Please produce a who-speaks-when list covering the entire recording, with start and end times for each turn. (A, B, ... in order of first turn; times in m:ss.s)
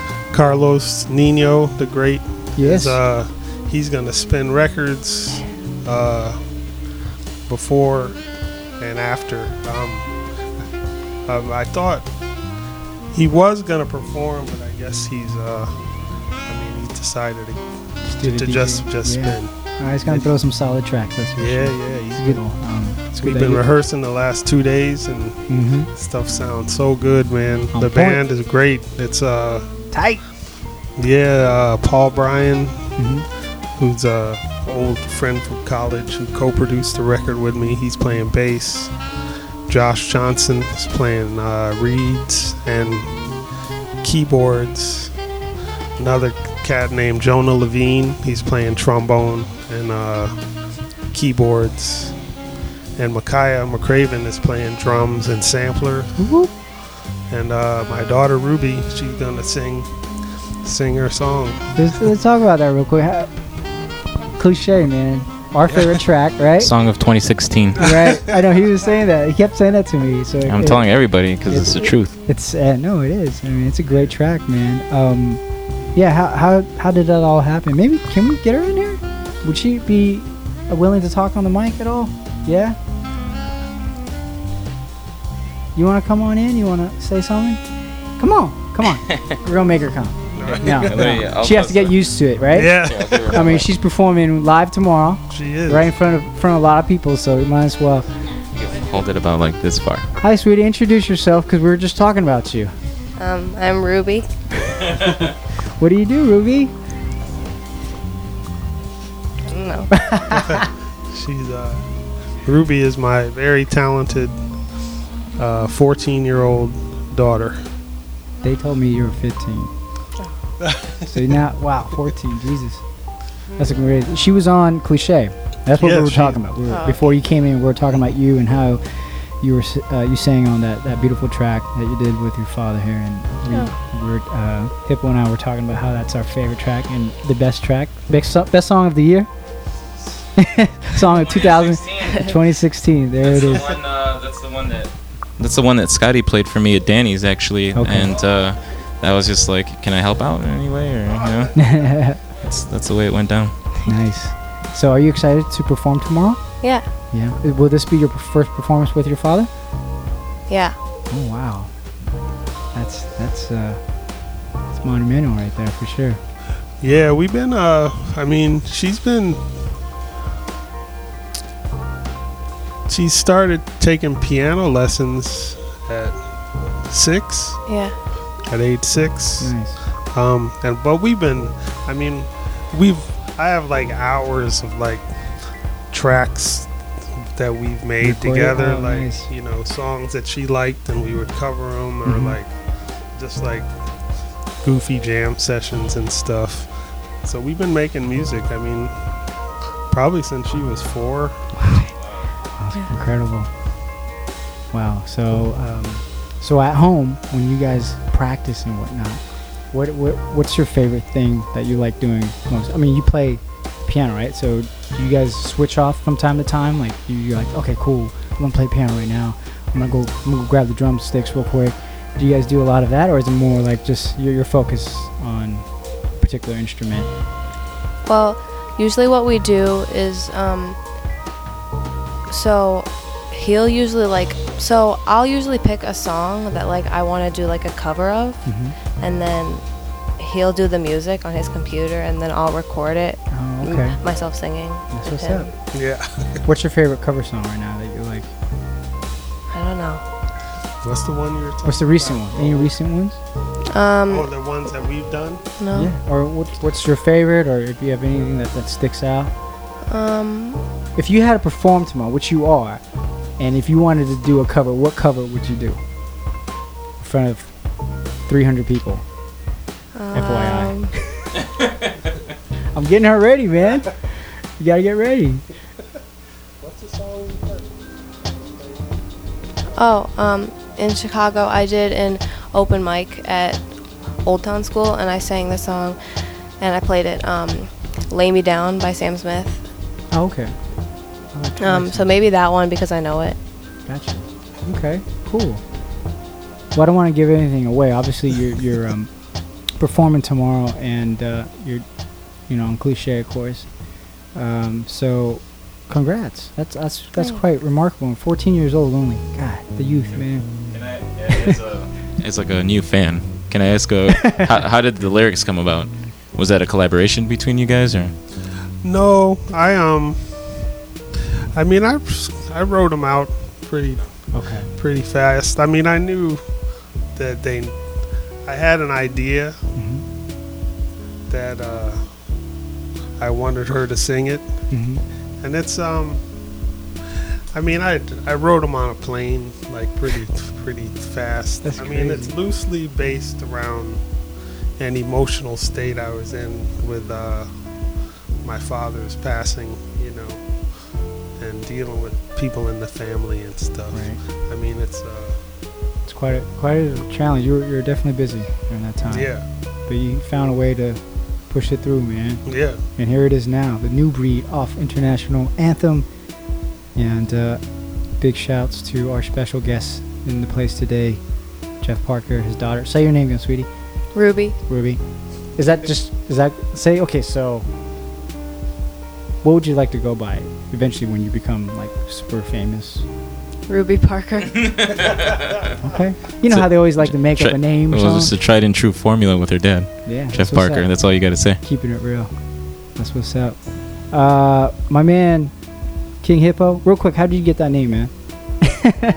0:00.3-0:06.5 A
0:02.6-0:03.0 B
0:07.5-0:08.2 A
0:08.8-0:10.1 A
0:11.3-0:12.1 A
0:13.1-0:15.8 A
0:16.4-0:20.3 A
0:18.1-0:23.6 B
0:21.4-0:29.7 A
0:25.5-0:25.9 B
0:27.7-0:28.2 B
0:29.9-0:30.2 B
0:31.0-0:32.8 A
0:33.0-0:33.3 B
0:33.8-0:39.0 A
0:39.7-0:43.2 A
0:44.0-0:45.1 A
0:46.0-0:50.4 A
0:51.1-0:52.2 A
0:53.0-0:56.1 A
0:56.2-0:56.5 B
0:57.3-0:59.9 A
1:00.6-1:01.6 A
1:01.8-1:03.3 B
1:04.4-1:06.7 B
1:06.6-1:07.8 C
1:07.8-1:15.4 B
1:10.4-1:12.2 C
1:15.9-1:22.8 B
1:25.8-1:27.6 B
1:28.2-1:38.1 B
1:30.4-1:31.1 A
1:30.4-1:33.7 C
1:32.6-1:33.4 A
1:35.3-1:35.9 A
1:38.5-1:40.1 C
1:40.2-1:42.7 B
1:43.2-1:44.3 D
1:45.8-1:46.7 B
1:49.5-1:49.9 D
1:49.9-1:50.6 B
1:51.1-1:51.9 A
1:52.4-1:54.4 A
1:55.4-1:57.6 A
1:58.4-1:59.7 B
2:00.6-2:00.9 A
2:01.1-2:19.3 B
2:05.8-2:06.6 A
2:06.6-2:07.1 D
2:13.5-2:13.8 D
2:20.4-2:23.6 B
2:21.0-2:22.2 C
2:23.2-2:31.7 C
2:27.7-2:28.2 B
2:31.5-2:32.2 B
2:32.4-2:33.7 C
2:33.9-2:39.5 B
2:36.6-2:36.9 D
2:40.5-2:40.8 D
2:41.1-2:41.9 B
2:42.7-2:44.1 B
2:44.7-2:46.2 B
2:46.8-2:49.4 A
2:52.9-2:56.3 A
2:56.8-2:57.6 A
2:57.6-2:58.0 D
2:58.4-3:06.8 A
2:59.4-2:59.8 B
3:07.4-3:12.6 A
3:08.0-3:09.3 B
3:12.0-3:12.4 B
3:13.1-3:13.7 A
3:14.6-3:19.0 A
3:19.9-3:21.5 A
3:21.6-3:21.9 B
3:22.6-3:23.5 B
3:24.7-3:47.1 B
3:48.1-3:50.8 D
3:52.3-4:05.5 D
3:58.4-3:58.7 B
4:03.3-4:04.0 B
4:04.9-4:05.8 B
4:05.7-4:06.4 A
4:06.4-4:08.3 B
4:09.5-4:10.0 D
4:10.8-4:12.8 A
4:11.6-4:13.2 B
4:13.7-4:14.3 D
4:14.1-4:15.5 A
4:15.6-4:15.9 D
4:15.7-4:19.3 B
4:19.9-4:20.6 D
4:21.0-4:25.8 B
4:27.0-4:29.1 B
4:30.0-4:30.9 D
4:30.1-4:30.9 B
4:32.7-4:35.4 B
4:36.6-4:39.0 A
4:39.8-4:46.0 D
4:46.6-4:49.6 D
4:50.1-4:52.2 B
4:51.6-4:53.4 D
4:53.9-4:55.8 B
4:56.7-5:10.5 B
5:07.2-5:07.4 D
5:10.1-5:18.2 C
5:18.8-5:20.4 A
5:21.5-5:26.6 A
5:24.3-5:24.7 B
5:27.1-5:27.8 A
5:28.4-5:29.6 A
5:29.8-5:30.0 B
5:31.3-5:32.2 A
5:33.2-5:34.7 A
5:34.7-5:35.0 B
5:35.4-5:36.2 A
5:37.5-5:44.0 A
5:41.6-5:42.3 B
5:44.8-5:47.6 A
5:48.4-5:50.5 A
5:51.4-5:55.4 A
5:53.9-5:54.2 B
5:56.1-6:06.1 B
5:59.1-5:59.5 A
6:02.4-6:02.8 A
6:06.9-6:13.7 B
6:14.1-6:14.6 D
6:14.7-6:17.7 B
6:19.4-6:23.1 B
6:23.7-6:24.7 D
6:25.8-6:28.4 B
6:26.4-6:31.6 C
6:30.0-6:35.6 B
6:36.2-6:38.6 B